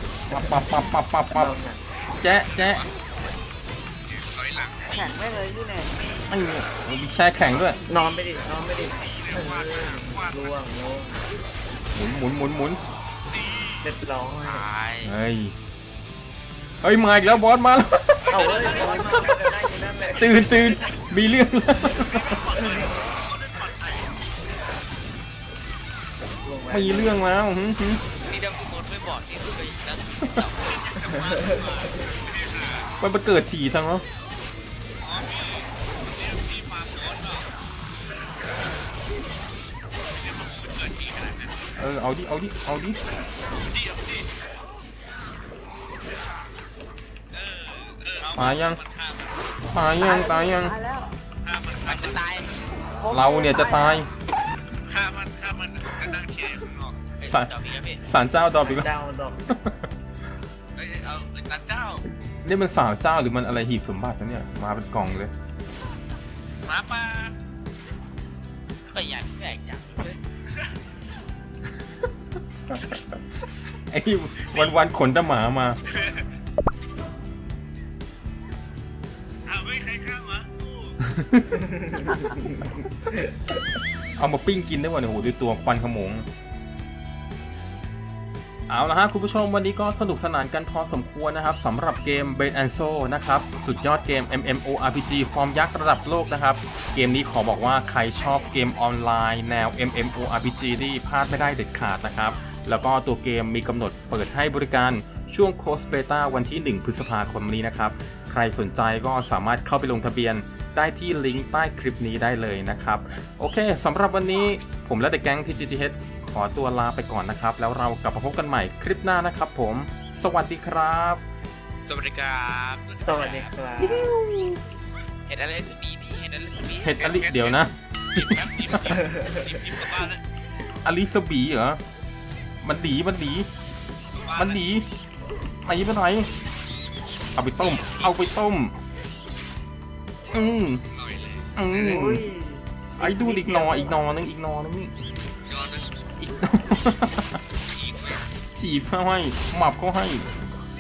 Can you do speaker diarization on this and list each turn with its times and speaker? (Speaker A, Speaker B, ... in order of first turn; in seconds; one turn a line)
Speaker A: 0.3-1.5
Speaker B: 0.4-0.6
Speaker B: 1.3-1.8
Speaker A: 2.2-2.8
Speaker C: 2.3-2.9
Speaker C: 4.0-5.2
Speaker D: 4.9-5.9
Speaker A: 6.3-7.8
Speaker C: 7.8-10.6
Speaker B: 7.9-11.2
Speaker A: 11.9-12.8
Speaker C: 13.3-13.9
Speaker B: 13.8-14.7
Speaker E: 14.4-15.1
Speaker A: 15.0-15.6
Speaker A: 16.8-19.4
Speaker C: 18.2-19.1
Speaker B: 18.3-20.7
Speaker E: 18.3-19.4
Speaker A: 20.1-22.3
Speaker C: 22.0-24.2
Speaker B: 22.7-22.9
Speaker B: 26.4-27.2
Speaker A: 26.7-28.0
Speaker E: 28.2-30.6
Speaker C: 30.6-32.9
Speaker A: 33.0-34.0
Speaker C: 35.0-37.5
Speaker C: 40.1-41.6
Speaker A: 41.8-43.0
Speaker C: 43.6-44.3
Speaker C: 47.3-49.5
Speaker A: 48.4-48.8
Speaker A: 49.7-50.8
Speaker D: 50.0-51.1
Speaker C: 51.4-52.6
Speaker E: 51.9-52.5
Speaker D: 53.0-54.0
Speaker A: 53.1-54.1
Speaker C: 54.8-57.0
Speaker E: 57.2-58.0
Speaker A: 57.2-58.9
Speaker B: 58.6-59.4
Speaker A: 59.5-59.9
Speaker C: 60.8-62.0
Speaker A: 62.4-65.3
Speaker C: 66.6-67.3
Speaker E: 68.9-70.2
Speaker A: 72.7-73.2
Speaker A: 73.9-75.8
Speaker C: 74.4-74.8
Speaker C: 75.9-76.3
Speaker C: 79.5-81.0
Speaker A: 81.1-81.5
Speaker B: 81.6-82.6
Speaker A: 84.2-86.3
Speaker A: 88.7-121.2
Speaker E: 121.9-123.5
Speaker C: 122.9-123.5
Speaker B: 123.0-124.2
Speaker A: 123.8-124.6
Speaker E: 125.3-127.0
Speaker A: 126.8-129.1
Speaker C: 127.0-130.2
Speaker A: 130.8-131.8
Speaker A: 132.6-133.5
Speaker C: 134.0-134.7
Speaker A: 134.3-134.9
Speaker A: 135.7-136.3
Speaker A: 137.4-138.8
Speaker C: 137.6-138.0
Speaker A: 140.3-140.8
Speaker C: 140.9-141.5
Speaker A: 141.6-142.3
Speaker B: 141.7-144.0
Speaker A: 143.0-144.9
Speaker C: 145.4-146.0
Speaker A: 146.2-147.4
Speaker C: 147.6-148.3
Speaker A: 148.6-150.3